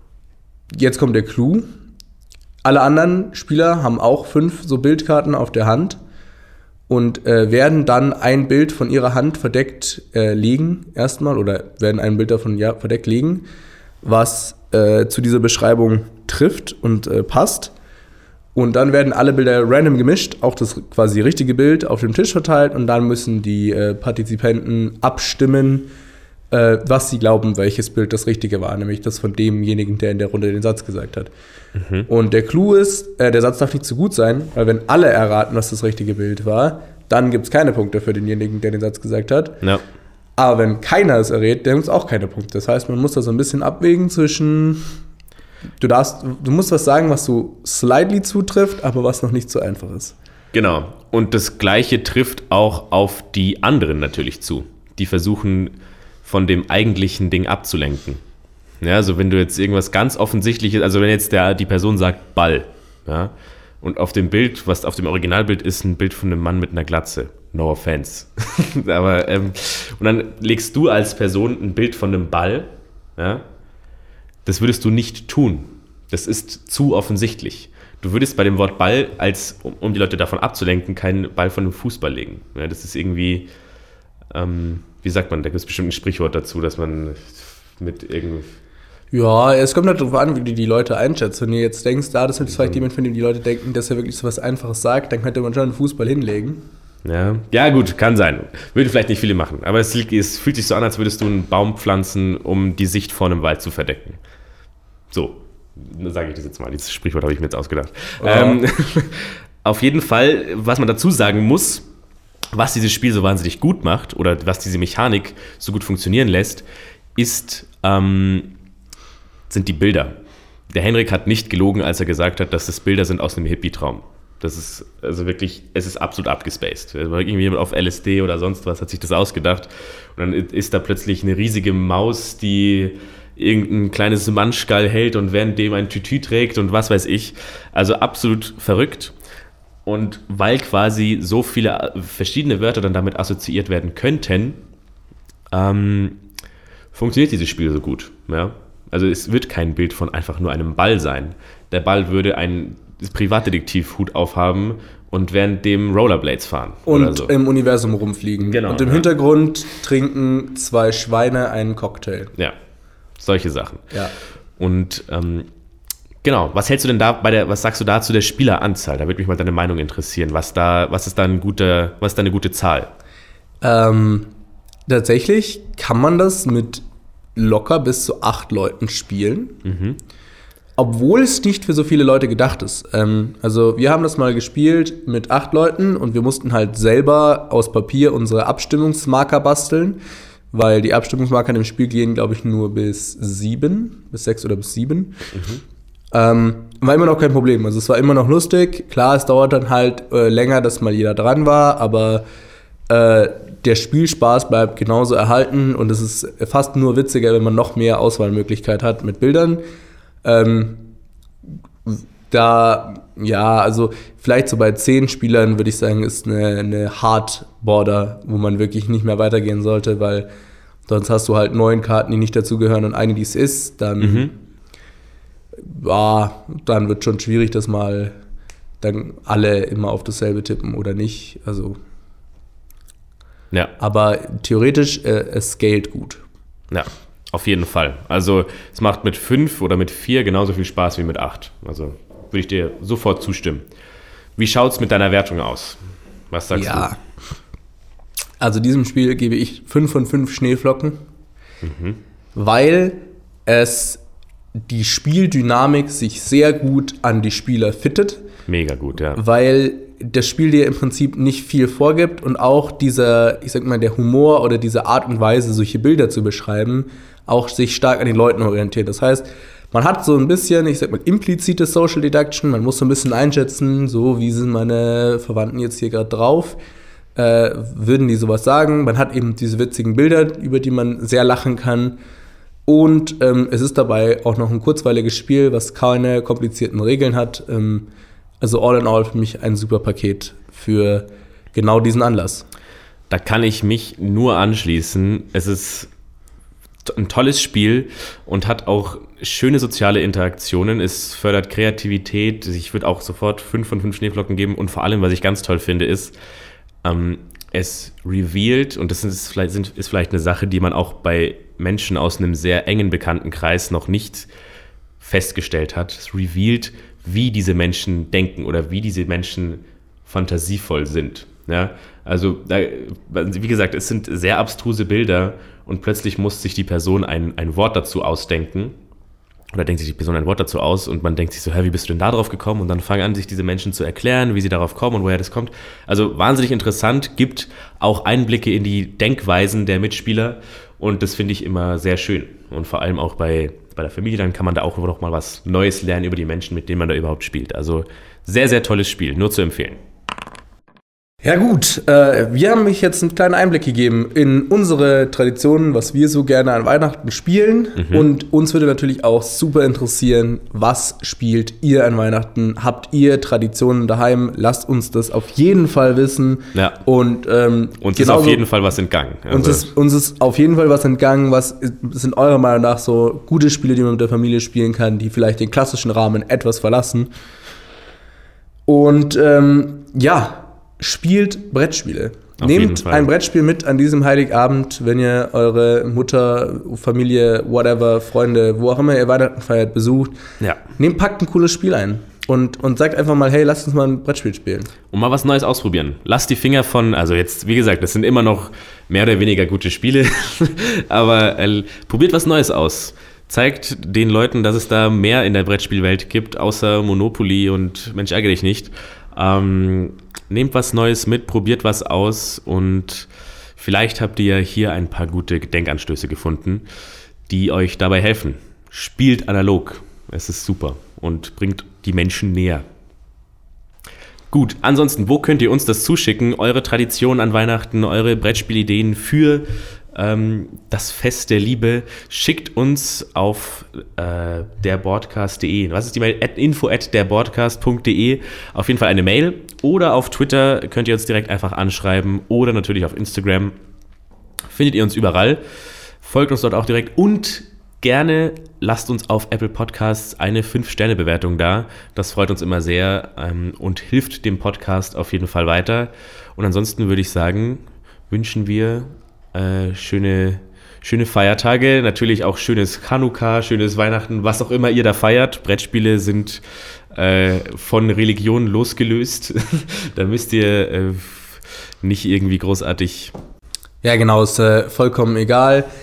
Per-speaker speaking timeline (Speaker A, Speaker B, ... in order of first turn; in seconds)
Speaker A: 0.7-1.7, 2.6-6.0, 6.9-13.5, 14.0-17.7, 18.6-25.9, 26.5-31.3, 32.1-39.6, 40.4-44.9, 45.8-50.1, 89.1-96.6, 108.2-108.6, 156.9-162.3, 173.6-174.3, 174.9-176.8, 177.4-179.6, 180.8-190.0, 190.5-195.2, 196.1-202.2, 202.9-209.6, 210.2-210.9, 211.9-220.3, 220.9-224.3, 225.6-228.1, 228.8-231.8, 233.8-236.2, 246.5-247.0, 248.4-251.0, 252.3-254.0, 254.7-258.2, 259.1-276.6, 277.2-282.0, 282.7-287.9, 288.4-292.5, 351.2-368.4, 369.3-377.1, 378.7-390.2, 390.8-394.7, 473.8-475.7
Speaker B: 31.8-32.1, 50.5-58.2, 58.8-73.4, 74.5-83.5, 84.3-88.6, 92.5-92.8, 97.0-104.2, 105.1-111.8, 112.5-118.5, 119.5-120.2, 120.7-139.1, 139.8-144.6, 145.5-146.2, 146.9-157.3, 158.4-159.1, 163.2-163.9, 164.6-165.5, 166.2-172.9, 179.7-180.0, 195.3-195.6, 224.0-224.3, 236.7-243.7, 244.4-246.9, 251.6-252.0, 258.5-259.2, 293.1-295.9, 296.8-306.2, 306.8-314.3, 315.0-328.8, 329.5-349.8, 357.8-358.1, 367.8-369.7, 382.4-383.1, 394.9-416.7, 417.3-422.7, 424.3-443.5, 444.5-445.4, 446.0-473.1